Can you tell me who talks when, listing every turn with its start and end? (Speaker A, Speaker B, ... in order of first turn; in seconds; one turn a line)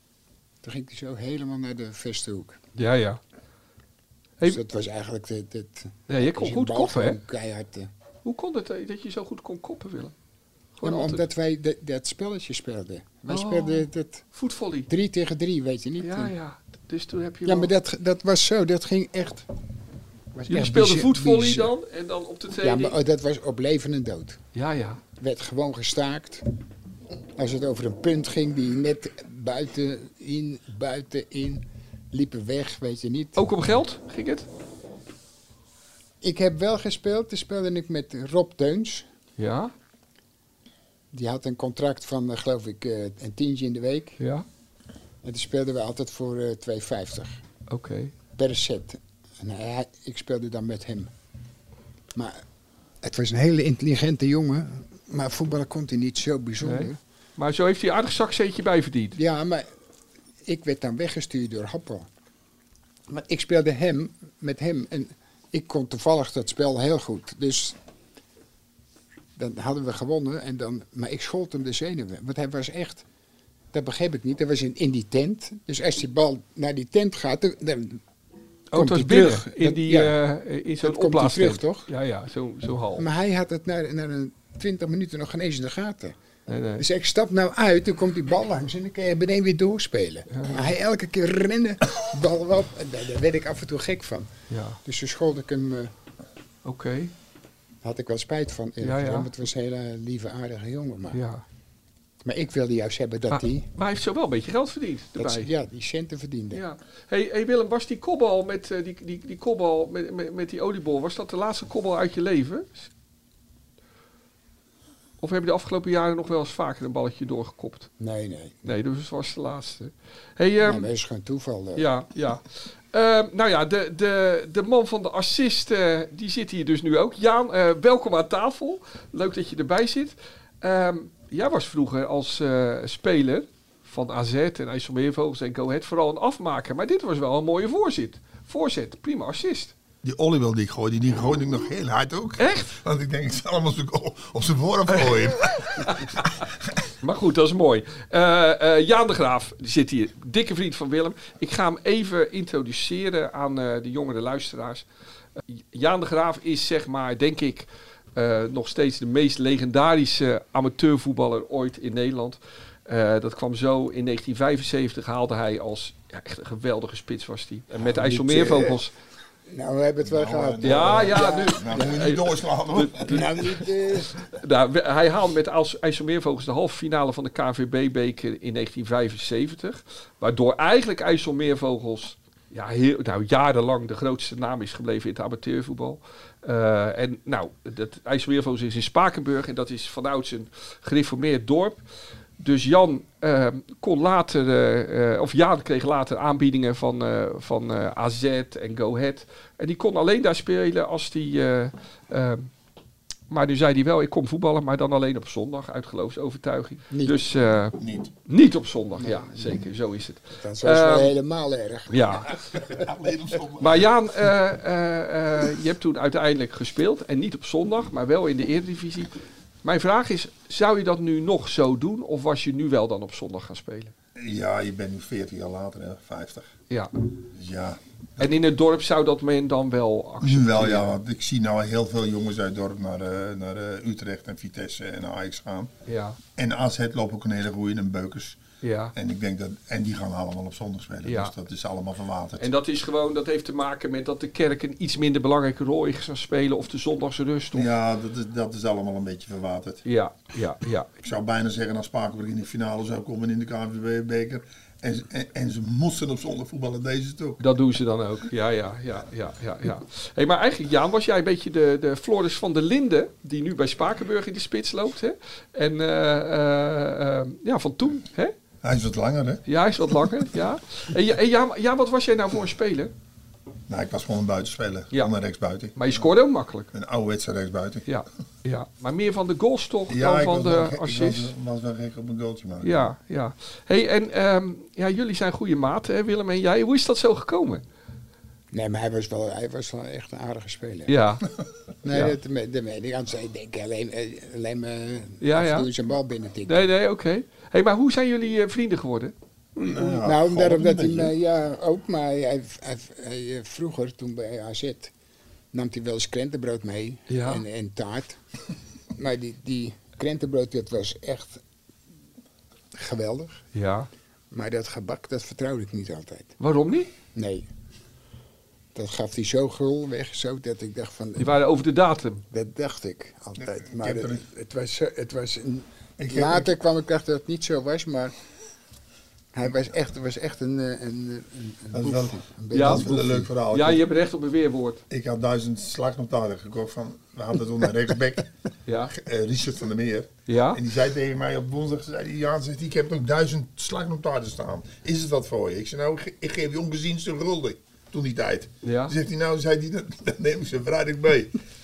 Speaker A: 0.6-2.6
Speaker B: 2.7-3.2
Speaker A: 4.4-7.9
Speaker B: 6.1-7.2
Speaker B: 8.2-10.1
Speaker B: 10.8-11.2
Speaker A: 10.8-14.2
Speaker B: 13.3-14.9
Speaker A: 14.9-16.3
Speaker B: 16.0-17.7
Speaker A: 17.4-19.5
Speaker A: 20.3-21.7
Speaker B: 20.5-23.0
Speaker A: 22.6-24.4
Speaker B: 24.5-25.0
Speaker A: 25.2-26.4
Speaker A: 27.4-33.5
Speaker B: 33.4-34.5
Speaker A: 36.2-39.1
Speaker B: 39.4-39.7
Speaker A: 41.1-44.2
Speaker B: 44.2-44.4
Speaker A: 45.2-47.4
Speaker B: 47.7-48.1
Speaker A: 48.4-51.1
Speaker A: 52.1-52.4
Speaker A: 53.0-57.0
Speaker B: 56.6-59.2
Speaker A: 59.1-59.7
Speaker A: 60.4-62.1
Speaker A: 63.1-67.8
Speaker A: 69.3-73.0
Speaker A: 73.7-78.0
Speaker B: 78.7-83.1
Speaker A: 78.7-80.2
Speaker A: 80.8-81.9
Speaker A: 83.0-86.2
Speaker B: 86.5-86.8
Speaker A: 86.8-94.3
Speaker B: 90.3-90.7
Speaker B: 94.5-94.8
Speaker A: 94.8-95.9
Speaker B: 96.6-97.1
Speaker A: 97.8-101.2
Speaker B: 98.8-99.3
Speaker B: 101.1-101.4
Speaker A: 102.2-103.7
Speaker B: 103.3-105.5
Speaker A: 105.2-106.6
Speaker B: 106.5-112.9
Speaker B: 115.2-117.9
Speaker A: 118.0-118.7
Speaker B: 118.6-120.9
Speaker A: 120.6-121.9
Speaker B: 121.7-139.7
Speaker C: 140.0-146.3
Speaker B: 142.4-142.7
Speaker B: 145.8-146.0
Speaker B: 147.0-154.8
Speaker B: 155.5-168.9
Speaker A: 167.8-168.8
Speaker A: 169.5-172.0
Speaker C: 170.0-173.3
Speaker B: 170.6-191.8
Speaker A: 173.0-174.1
Speaker B: 192.4-202.5
Speaker B: 203.3-211.1
Speaker A: 206.9-207.2
Speaker C: 207.8-208.1
Speaker A: 209.0-209.6
Speaker A: 210.4-212.6
Speaker B: 211.9-212.4
Speaker C: 212.5-213.9
Speaker B: 213.6-219.1
Speaker B: 219.6-223.9
Speaker C: 224.2-226.5
Speaker C: 227.3-227.8
Speaker B: 228.2-231.0
Speaker C: 230.2-235.7
Speaker B: 235.8-236.2
Speaker C: 236.4-238.4
Speaker B: 238.6-238.9
Speaker C: 238.9-242.5
Speaker B: 241.0-241.3
Speaker B: 242.4-247.7
Speaker C: 247.5-249.8
Speaker B: 249.8-250.9
Speaker C: 251.0-257.4
Speaker B: 257.4-268.3
Speaker C: 268.6-269.4
Speaker B: 269.4-272.9
Speaker C: 273.7-276.1
Speaker B: 275.7-276.7
Speaker C: 276.7-277.9
Speaker B: 277.9-281.3
Speaker C: 279.9-282.9
Speaker B: 282.6-287.6
Speaker A: 288.5-291.0
Speaker B: 290.9-291.2
Speaker A: 291.8-296.7
Speaker B: 295.2-295.7
Speaker B: 296.5-300.0
Speaker C: 299.6-301.1
Speaker A: 300.0-304.9
Speaker A: 305.5-308.2
Speaker B: 307.1-307.4
Speaker A: 308.9-311.4
Speaker A: 312.7-313.4
Speaker B: 313.5-313.9
Speaker A: 314.3-316.4
Speaker B: 316.4-316.9
Speaker A: 317.1-317.5
Speaker A: 318.7-321.3
Speaker B: 321.2-322.2
Speaker A: 322.3-328.1
Speaker C: 323.4-324.2
Speaker C: 326.0-326.4
Speaker A: 329.3-333.3
Speaker C: 331.7-333.8
Speaker B: 332.5-332.9
Speaker B: 333.5-334.8
Speaker C: 334.9-338.3
Speaker B: 338.7-338.9
Speaker C: 338.9-351.4
Speaker B: 340.3-340.6
Speaker B: 348.6-348.9